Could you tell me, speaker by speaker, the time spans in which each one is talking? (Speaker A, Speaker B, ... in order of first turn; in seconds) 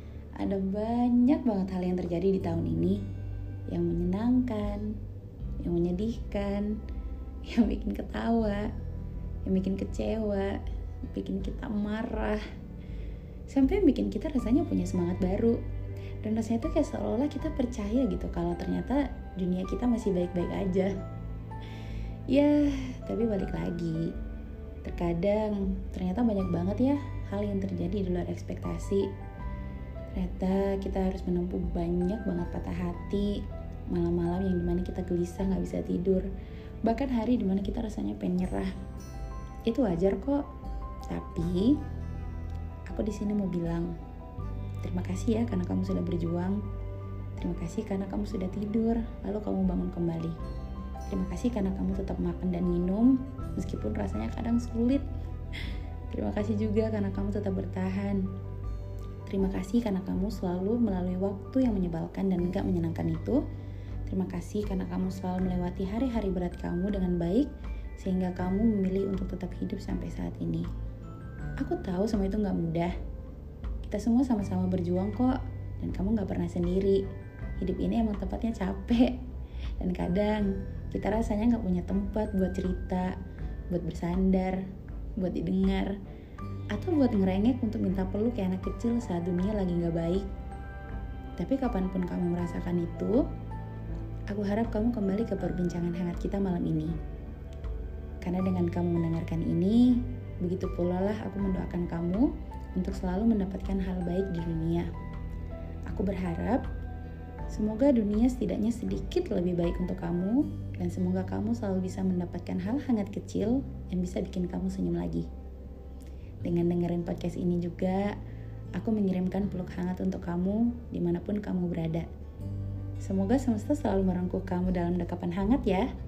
Speaker A: 0.4-3.0, 3.7-4.9, 5.6-6.8, 7.5-8.7, 9.4-10.6, 11.1-12.4, 13.5-15.6, 16.2-20.9, 22.3-24.1, 24.8-29.1, 30.1-36.3, 36.8-38.7, 39.6-40.4, 41.1-41.8, 42.9-43.9, 44.8-46.6, 47.4-50.4, 51.1-55.0, 56.1-58.2, 59.2-63.4, 64.1-70.7, 71.6-72.9, 73.8-77.0, 77.6-79.2, 79.8-83.2, 83.7-84.6, 85.2-85.9, 86.7-90.3, 91.4-93.2, 94.3-97.0, 98.2-104.9, 105.9-106.6, 107.5-115.3, 116.4-118.2, 118.8-122.1, 123.0-125.9